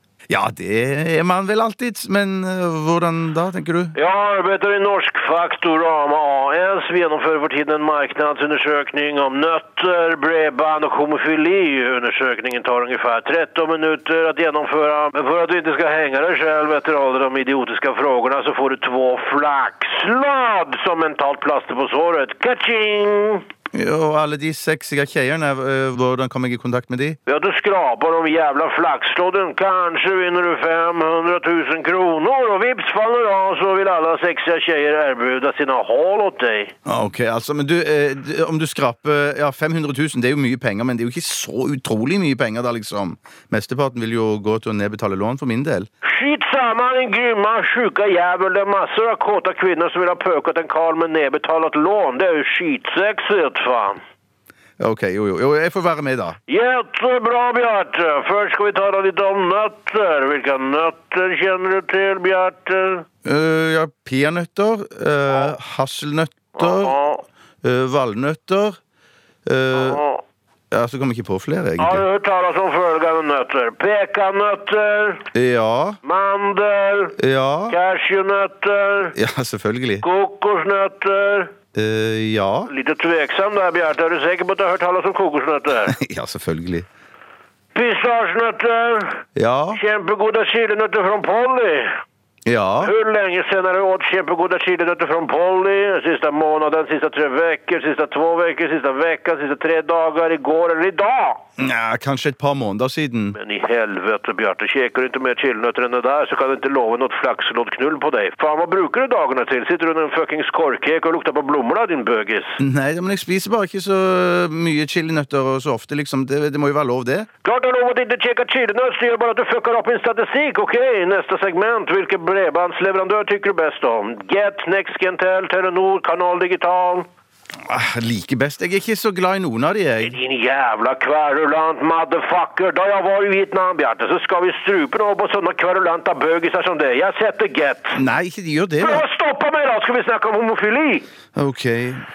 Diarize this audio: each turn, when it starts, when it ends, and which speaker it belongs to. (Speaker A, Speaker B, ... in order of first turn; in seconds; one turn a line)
Speaker A: 0.3-3.9
Speaker B: 4.0-23.4
Speaker A: 23.7-27.2
Speaker B: 27.3-36.7
Speaker A: 36.9-45.9
Speaker B: 46.0-54.0
Speaker A: 54.8-56.4
Speaker B: 56.5-63.1
Speaker A: 63.2-67.0
Speaker B: 66.6-67.2
Speaker A: 67.6-68.8
Speaker A: 69.5-70.0
Speaker B: 69.7-70.2
Speaker A: 70.7-72.0
Speaker B: 71.8-75.3
Speaker A: 75.3-76.0
Speaker B: 76.0-77.2
Speaker A: 77.2-77.8
Speaker B: 77.7-79.2
Speaker A: 79.2-80.0
Speaker B: 80.0-81.5
Speaker A: 81.8-82.7
Speaker B: 82.7-86.0
Speaker A: 85.9-86.9
Speaker B: 87.7-89.2
Speaker A: 89.4-89.8
Speaker B: 89.7-92.0
Speaker A: 92.5-92.9
Speaker B: 92.8-101.4
Speaker A: 101.6-103.4
Speaker B: 103.4-112.6
Speaker A: 112.6-117.3
Speaker B: 117.4-127.1
Speaker A: 127.7-130.2
Speaker B: 130.0-138.0
Speaker A: 137.9-139.1
Speaker B: 138.8-141.1
Speaker A: 141.4-142.0